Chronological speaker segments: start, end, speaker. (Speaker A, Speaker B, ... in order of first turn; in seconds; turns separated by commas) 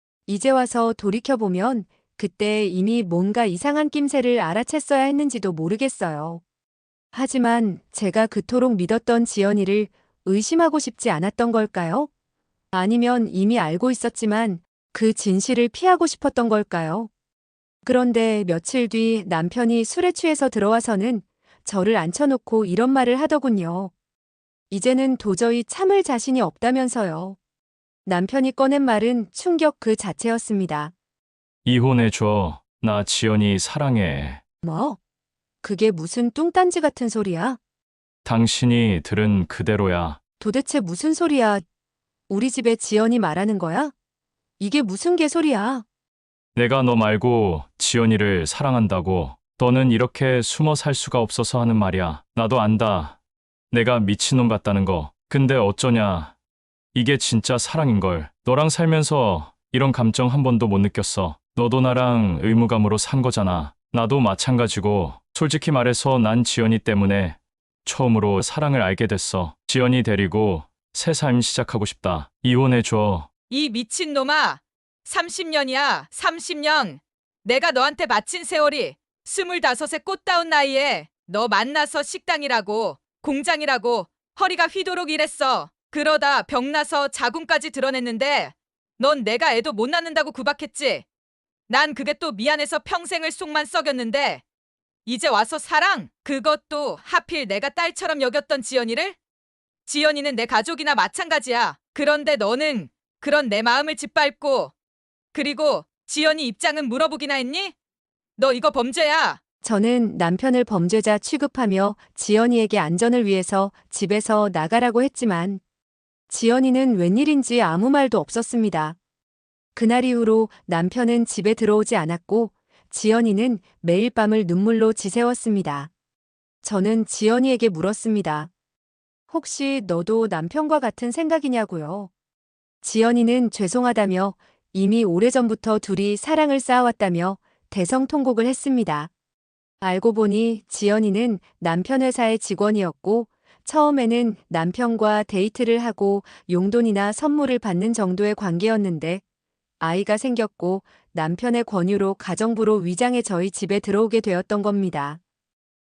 Speaker A: 0.3-6.4, Speaker A: 7.1-12.1, Speaker A: 12.7-17.1, Speaker A: 17.9-23.9, Speaker A: 24.7-27.4, Speaker A: 28.1-30.9, Speaker B: 31.6-34.4, Speaker A: 34.6-35.0, Speaker A: 35.6-37.6, Speaker B: 38.2-40.2, Speaker A: 40.4-41.6, Speaker A: 42.3-43.9, Speaker A: 44.6-45.9, Speaker B: 46.5-53.2, Speaker B: 53.7-56.3, Speaker B: 56.9-73.3, Speaker C: 73.5-91.0, Speaker C: 91.7-94.4, Speaker C: 95.1-99.2, Speaker C: 99.9-104.7, Speaker C: 105.3-107.7, Speaker C: 108.4-109.4, Speaker A: 109.6-115.6, Speaker A: 116.3-119.0, Speaker A: 119.8-125.9, Speaker A: 126.6-128.5, Speaker A: 129.3-132.1, Speaker A: 132.8-139.1, Speaker A: 139.8-149.2, Speaker A: 149.8-155.2